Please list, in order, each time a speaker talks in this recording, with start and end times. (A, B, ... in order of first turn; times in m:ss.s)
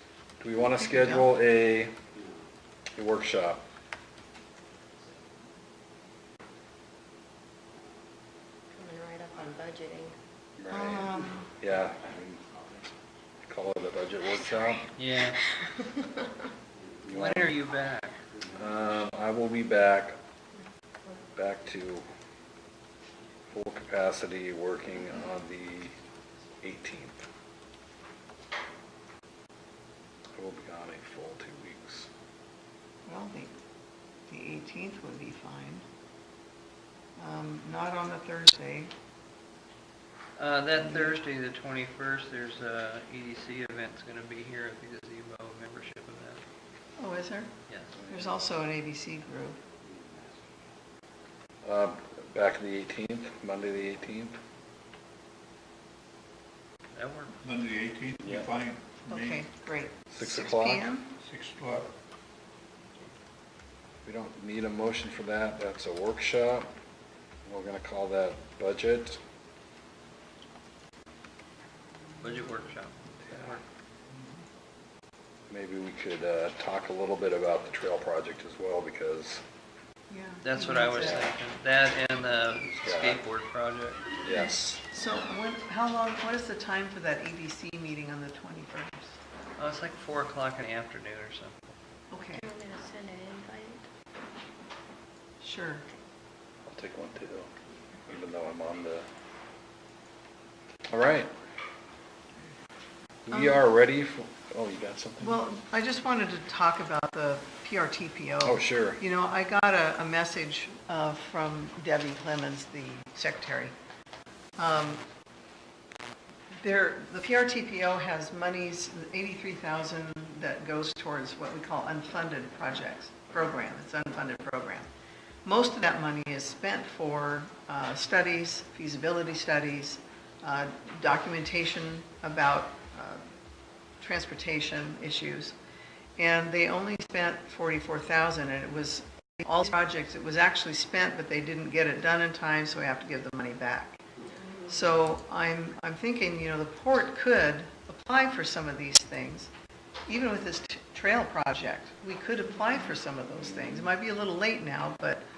0:00.4-0:01.9 A
0:00.8-0:01.3 B
0:03.0-0:03.7 A
0:08.7-0:10.0 C
0:10.6-0:12.4 A
0:10.7-0:11.6 B
0:13.4-0:14.9 A
0:15.0-0:15.4 D
0:17.0-0:17.6 A
0:17.1-0:18.2 D
0:18.5-0:20.2 A
0:21.3-0:22.0 A
0:23.5-0:26.0 A
0:26.6-0:27.3 A
0:30.4-0:32.1 A
0:33.1-0:33.5 B
0:34.3-0:35.8 B
0:37.2-0:38.9 B
0:40.4-0:46.4 D
0:40.8-0:41.2 B
0:47.0-0:47.5 B
0:47.7-0:47.9 D
0:47.9-0:48.3 A
0:48.1-0:49.6 B
0:51.6-0:54.4 A
0:56.9-0:57.4 D
0:57.4-0:59.5 E
0:58.2-0:58.5 A
0:59.1-1:01.2 B
1:00.1-1:00.9 A
1:01.2-1:01.9 E
1:04.0-1:06.7 A
1:07.4-1:09.2 A
1:12.2-1:13.6 D
1:13.2-1:13.6 A
1:15.5-1:19.4 A
1:20.1-1:21.3 B
1:20.4-1:24.1 D
1:21.0-1:21.3 A
1:22.6-1:23.3 A
1:24.2-1:24.8 A
1:24.9-1:29.2 B
1:29.6-1:31.6 D
1:32.1-1:32.5 B
1:32.4-1:33.8 C
1:35.4-1:35.9 B
1:36.7-1:37.5 A
1:38.1-1:39.1 A
1:40.9-1:41.3 A
1:43.3-1:45.4 A
1:43.3-1:43.6 B
1:45.2-1:53.7 B
1:48.4-1:49.0 A
1:54.6-1:55.0 B
1:56.6-2:04.9 B
2:05.4-2:13.2 B
2:14.0-2:15.6 B
2:16.2-2:24.0 B
2:24.6-2:29.5 B
2:30.1-2:35.2 B